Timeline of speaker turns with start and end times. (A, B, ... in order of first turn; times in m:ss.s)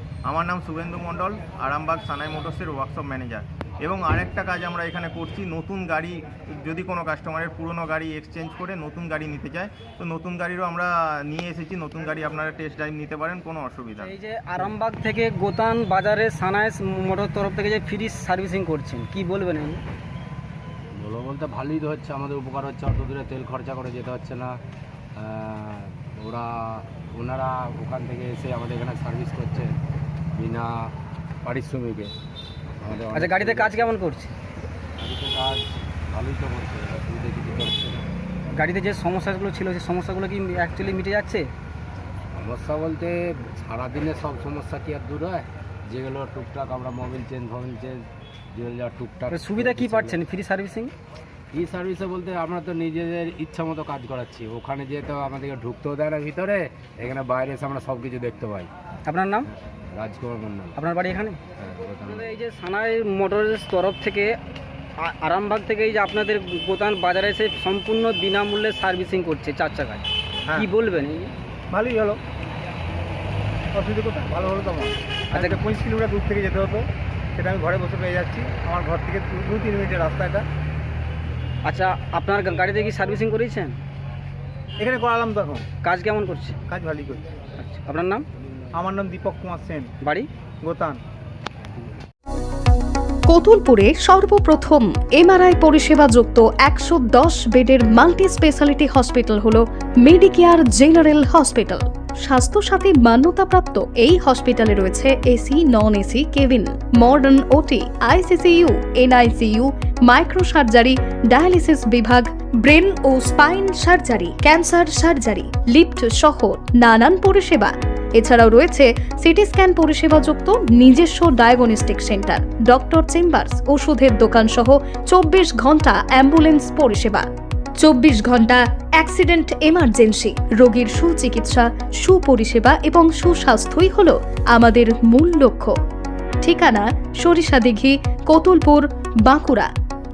0:00.2-0:14.1 A
0:14.0-0:19.8 B
0:20.9-0:24.6 C
0:25.2-0:29.8 C
0:30.3-0:30.9 C
0:31.4-0:32.1 C
0:32.8-0:33.9 C
0:33.1-0:34.4 B
0:35.0-0:38.0 C
0:38.5-0:41.5 B
0:42.3-0:50.2 C
0:49.3-0:50.9 B
0:51.5-0:58.7 C
0:59.0-0:59.5 B
0:59.5-1:00.8 C
1:00.8-1:01.4 B
1:01.6-1:02.4 C
1:02.0-1:04.3 B
1:05.0-1:11.3 B
1:11.7-1:12.2 D
1:13.7-1:20.5 D
1:15.3-1:15.6 B
1:21.6-1:23.8 B
1:24.8-1:25.7 D
1:25.8-1:26.6 B
1:26.7-1:27.2 D
1:27.6-1:28.2 B
1:28.7-1:29.9 D
1:30.6-1:31.0 D
1:33.3-2:07.3 E
2:07.8-2:15.7 E
2:16.4-2:19.7 E